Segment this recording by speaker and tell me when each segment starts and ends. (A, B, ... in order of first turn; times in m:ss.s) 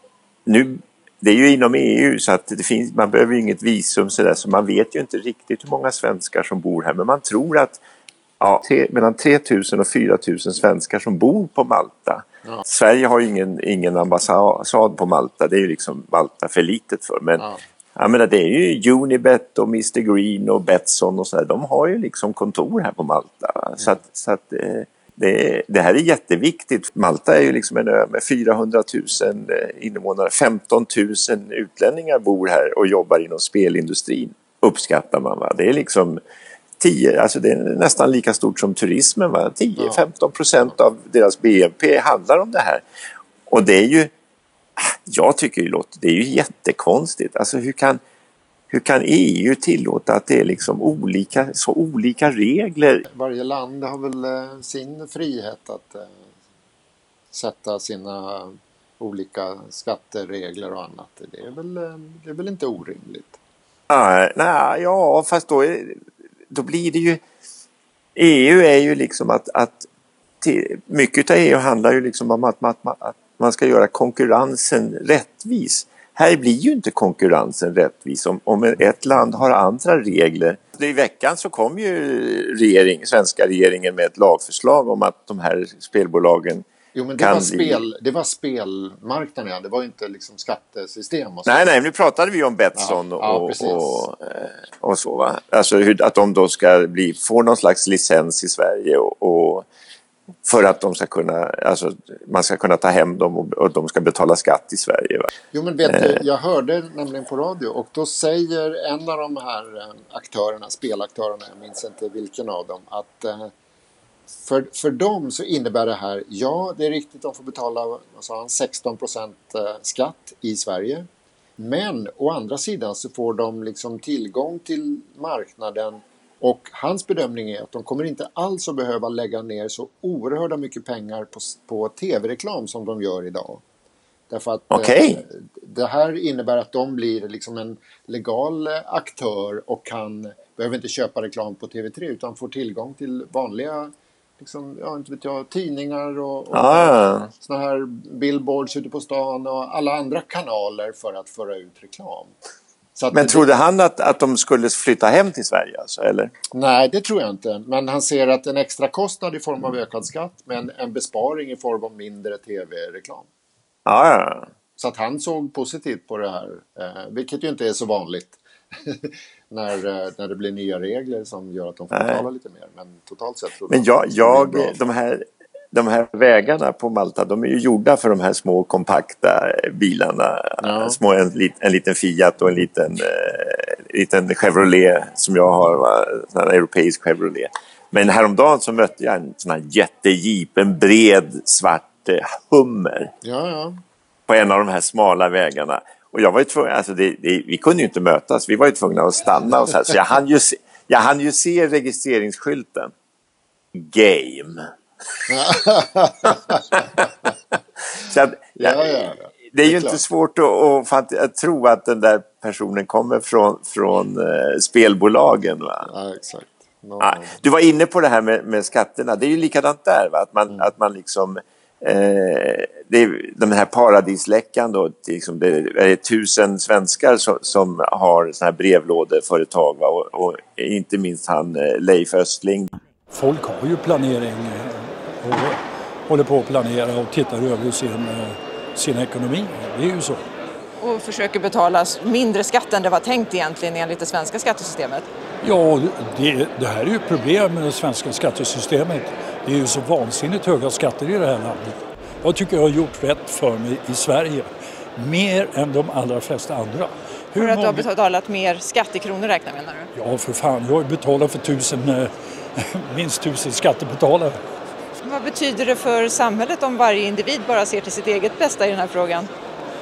0:00.5-0:07.8 A
0:08.4-0:17.4 A
0:18.0-0:36.2 A
0:36.8-0:42.8 A
0:39.8-0:40.0 B
0:43.5-0:44.1 A
0:44.8-0:48.0 A
0:48.7-0:53.0 A
0:53.1-0:56.3 B
0:57.3-1:03.4 B
1:03.9-1:07.2 A
1:08.2-1:09.9 A
1:10.4-1:26.7 A
1:27.0-1:31.7 B
1:27.2-1:27.8 A
1:31.4-1:39.7 A
1:32.8-1:34.0 B
1:40.4-1:45.3 A
1:45.5-1:53.5 B
1:45.9-1:46.2 A
1:54.3-2:01.1 B
2:01.6-2:13.6 B
2:14.3-2:32.4 B
2:14.7-2:15.2 A
2:26.5-2:27.3 A
2:33.0-2:33.5 B
2:33.1-2:36.3 A
2:36.5-2:43.3 B
2:43.9-2:44.5 A
2:44.8-2:54.8 B
2:51.9-2:52.2 A
2:53.7-3:13.1 A
3:00.6-3:01.0 B
3:13.2-3:13.8 B
3:14.3-3:22.9 A
3:23.7-3:24.7 A
3:25.3-3:27.3 B
3:26.2-3:27.1 A
3:28.0-3:35.9 A
3:28.6-3:30.0 B
3:35.8-3:37.4 B
3:37.0-3:52.7 A
3:53.1-4:00.2 C
4:00.8-4:05.1 D
4:05.4-4:17.9 C
4:17.4-4:19.9 D
4:19.9-4:24.4 C
4:25.0-4:29.3 D